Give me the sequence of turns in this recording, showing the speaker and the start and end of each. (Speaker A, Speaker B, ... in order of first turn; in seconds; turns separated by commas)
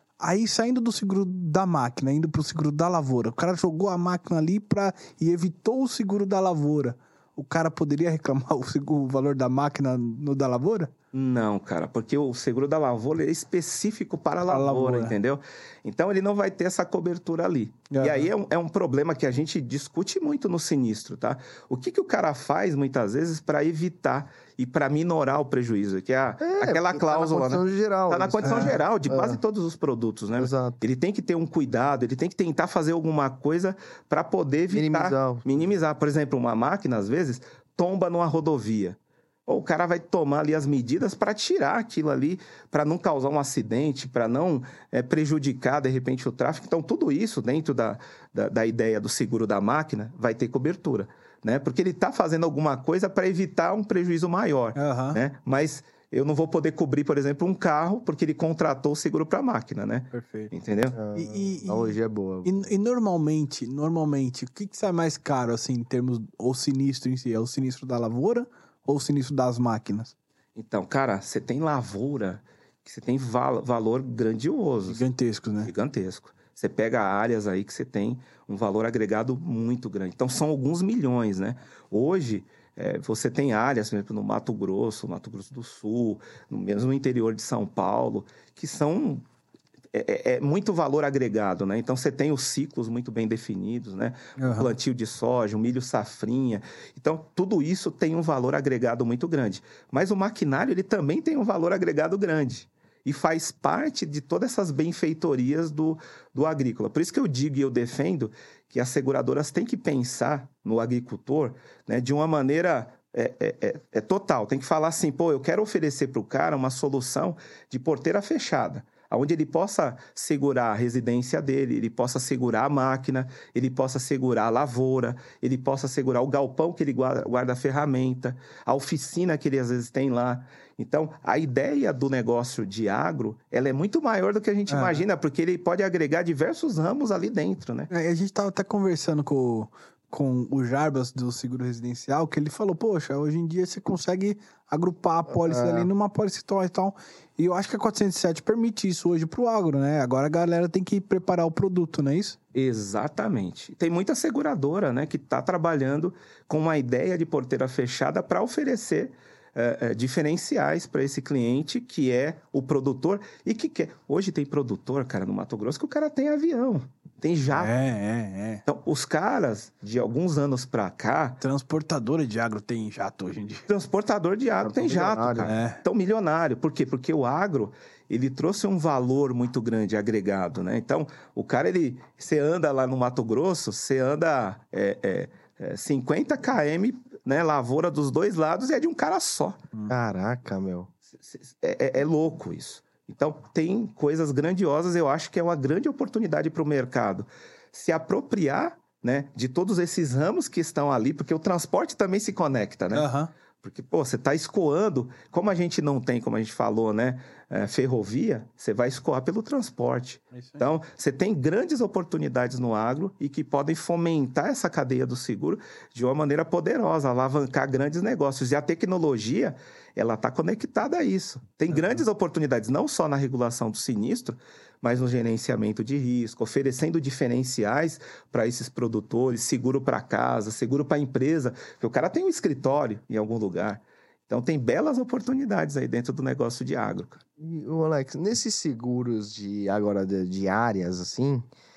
Speaker A: 0.2-10.9, Speaker B: 11.1-61.0, Speaker A: 14.5-15.2, Speaker A: 17.9-18.3, Speaker C: 26.4-29.4, Speaker A: 28.4-28.8, Speaker C: 30.4-30.8, Speaker C: 34.7-35.5, Speaker A: 54.8-55.2, Speaker A: 60.1-60.5, Speaker C: 60.9-62.5, Speaker A: 61.1-70.1, Speaker B: 70.5-75.0, Speaker A: 74.9-75.7, Speaker B: 75.6-89.2, Speaker B: 89.9-137.9, Speaker A: 94.4-94.7, Speaker A: 134.7-135.0, Speaker A: 137.9-152.4, Speaker C: 145.3-145.9, Speaker B: 152.5-167.7, Speaker A: 167.5-168.6, Speaker B: 168.7-171.4, Speaker A: 171.4-173.7, Speaker B: 173.7-189.6, Speaker C: 174.6-175.5, Speaker A: 175.4-175.8, Speaker C: 189.9-190.9, Speaker B: 191.2-203.1, Speaker A: 202.9-203.3, Speaker B: 203.6-237.2, Speaker A: 210.3-210.6, Speaker C: 237.4-241.5